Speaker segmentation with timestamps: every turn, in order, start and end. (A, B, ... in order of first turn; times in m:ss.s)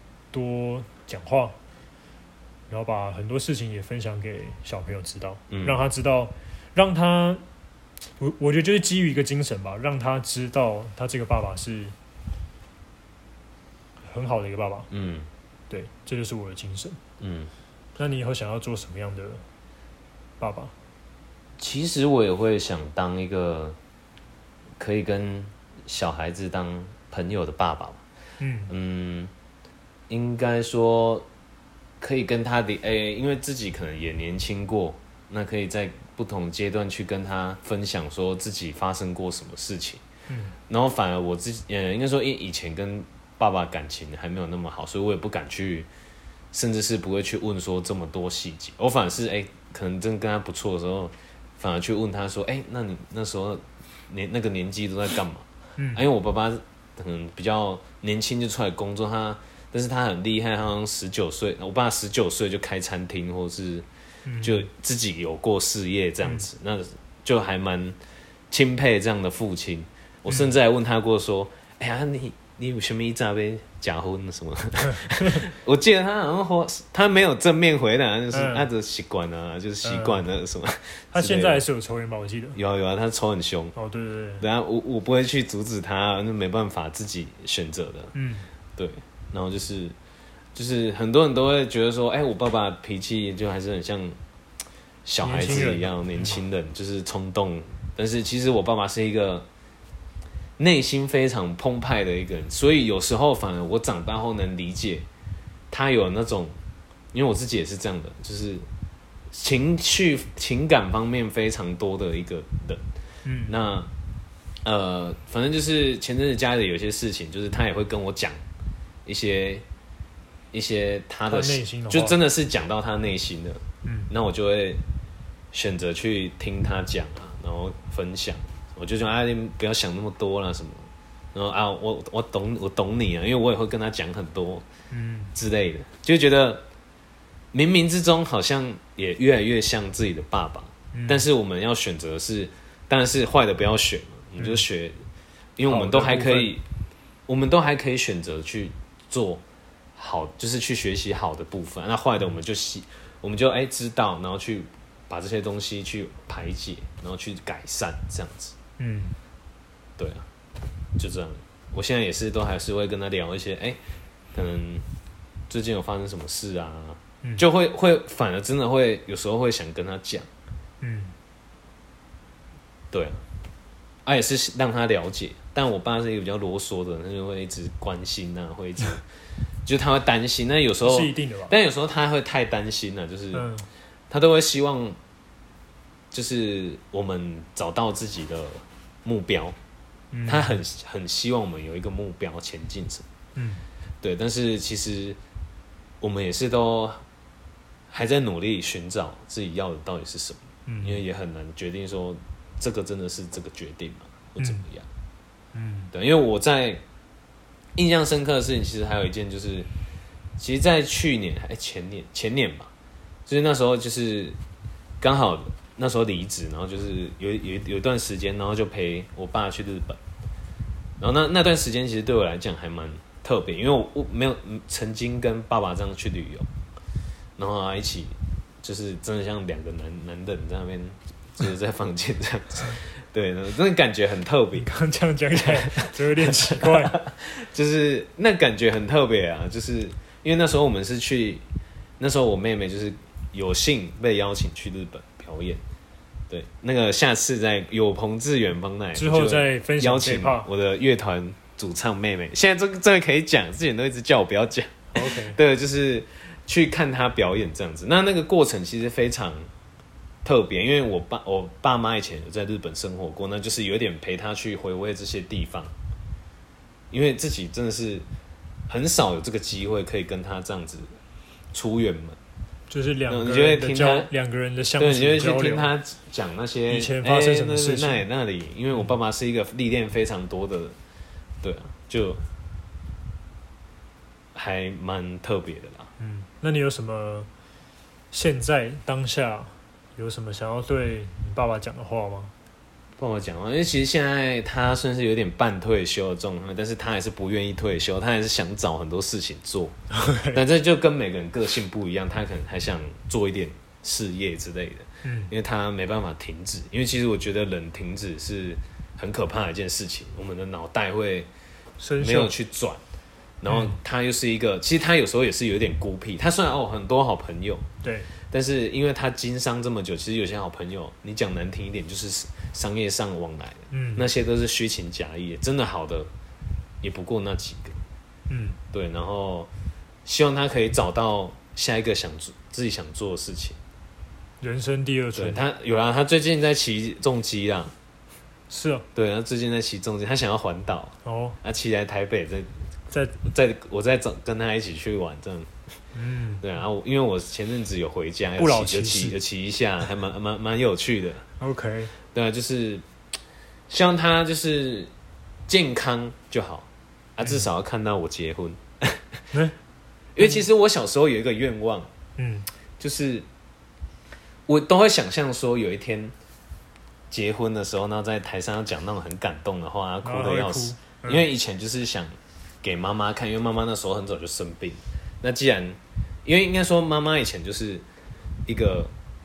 0:00.3-0:01.6 A
0:02.7-0:07.4 A
0:05.5-0:05.8 B
0:08.2-0:12.0 A
0:14.0-0:14.9 A
0:14.9-0:15.3 B
0:15.7-0:17.0 A
0:17.2-0:17.5 B
0:18.0-0:19.4 A
0:20.4-0:20.7 A
0:21.6-0:23.8 B
0:24.8-0:28.0 B
0:28.4-0:28.7 A
0:28.7-0:29.3 B
0:30.1-0:31.3 B
0:32.0-0:40.0 B
0:40.3-0:40.5 A
0:40.7-0:45.9 B
0:46.5-1:03.8 B
0:55.8-0:56.0 A
1:04.2-1:04.7 A
1:04.4-1:08.0 B
1:08.5-1:21.6 B
1:10.3-1:10.5 A
1:18.3-1:18.7 A
1:19.8-1:20.2 A
1:21.1-1:22.6 A
1:22.5-1:23.8 B
1:23.8-1:24.4 A
1:24.4-1:28.1 B
1:28.1-1:28.5 A
1:28.8-1:29.9 B
1:30.5-1:34.2 B
1:35.0-1:39.5 B
1:35.2-1:36.4 A
1:40.6-1:45.1 B
1:45.7-1:46.6 B
1:47.1-1:48.7 B
1:49.3-1:52.8 B
1:53.2-1:53.6 A
1:53.5-1:53.9 B
1:54.6-1:58.4 B
1:59.0-1:59.6 B
2:00.5-2:04.8 B
2:01.3-2:02.2 A
2:03.8-2:04.1 A
2:05.5-2:14.6 B
2:14.9-2:15.3 A
2:15.3-2:16.6 B
2:17.5-2:25.0 B
2:20.9-2:21.3 A
2:24.4-2:24.6 A
2:25.6-2:26.6 B
2:25.6-2:26.5 A
2:27.3-2:29.4 B
2:30.0-2:38.5 B
2:38.8-2:39.2 A
2:40.0-2:40.3 B
2:41.0-2:43.8 B
2:44.3-2:44.8 B
2:45.5-2:50.3 B
2:50.8-2:51.1 A
2:52.9-2:53.2 B
2:54.0-2:59.1 B
2:59.6-3:03.5 B
3:00.8-3:01.5 A
3:03.3-3:03.7 A
3:04.1-3:05.0 B
3:06.1-3:09.6 B
3:10.1-3:10.6 A
3:10.2-3:13.0 B
3:13.3-3:13.6 A
3:14.0-3:15.2 B
3:16.0-3:17.0 B
3:17.9-3:24.9 B
3:20.6-3:21.0 A
3:24.4-3:24.6 A
3:25.5-3:25.9 A
3:25.9-3:26.8 B
3:27.8-3:29.7 B
3:30.4-3:32.7 B
3:33.2-3:34.4 B
3:35.0-3:40.0 B
3:41.0-3:46.5 B
3:47.4-3:54.7 B
3:54.5-3:57.0 A
3:55.4-4:01.4 B
4:02.0-4:05.6 B
4:06.3-4:19.5 B
4:08.9-4:10.5 A
4:14.9-4:15.4 A
4:20.2-4:25.7 B
4:26.9-4:28.0 B
4:28.7-4:31.0 B
4:31.5-4:32.2 B
4:32.7-4:35.7 A
4:33.1-4:34.1 B
4:34.8-4:40.8 B
4:36.7-4:38.0 A
4:41.4-4:42.2 B
4:44.3-4:45.9 B
4:46.0-4:47.3 A
4:48.1-4:52.3 A
4:53.0-4:59.8 B
4:59.9-5:00.4 A
5:00.3-5:11.3 B
5:05.0-5:05.3 A
5:11.8-5:12.3 A
5:12.0-5:12.8 B
5:13.4-5:17.7 B
5:13.5-5:13.8 A
5:17.8-5:18.1 A
5:18.3-5:26.1 B
5:23.7-5:24.0 A
5:26.8-5:27.8 B
5:28.3-5:28.6 A
5:28.7-5:29.5 B
5:30.0-5:33.6 B
5:34.4-5:35.4 A
5:35.1-5:37.7 B
5:38.5-5:38.8 A
5:38.9-5:45.5 B
5:41.0-5:41.4 A
5:42.9-5:43.2 A
5:45.9-5:46.4 A
5:46.4-5:51.2 B
5:48.4-5:49.2 A
5:51.4-5:51.9 A
5:52.1-5:52.8 B
5:53.7-5:54.9 B
5:55.5-5:59.2 B
6:00.1-6:01.9 B
6:00.2-6:00.4 A
6:02.2-6:02.4 A
6:02.8-6:03.2 B
6:04.5-6:06.1 B
6:07.1-6:17.8 B
6:10.0-6:11.2 A
6:18.5-6:18.9 B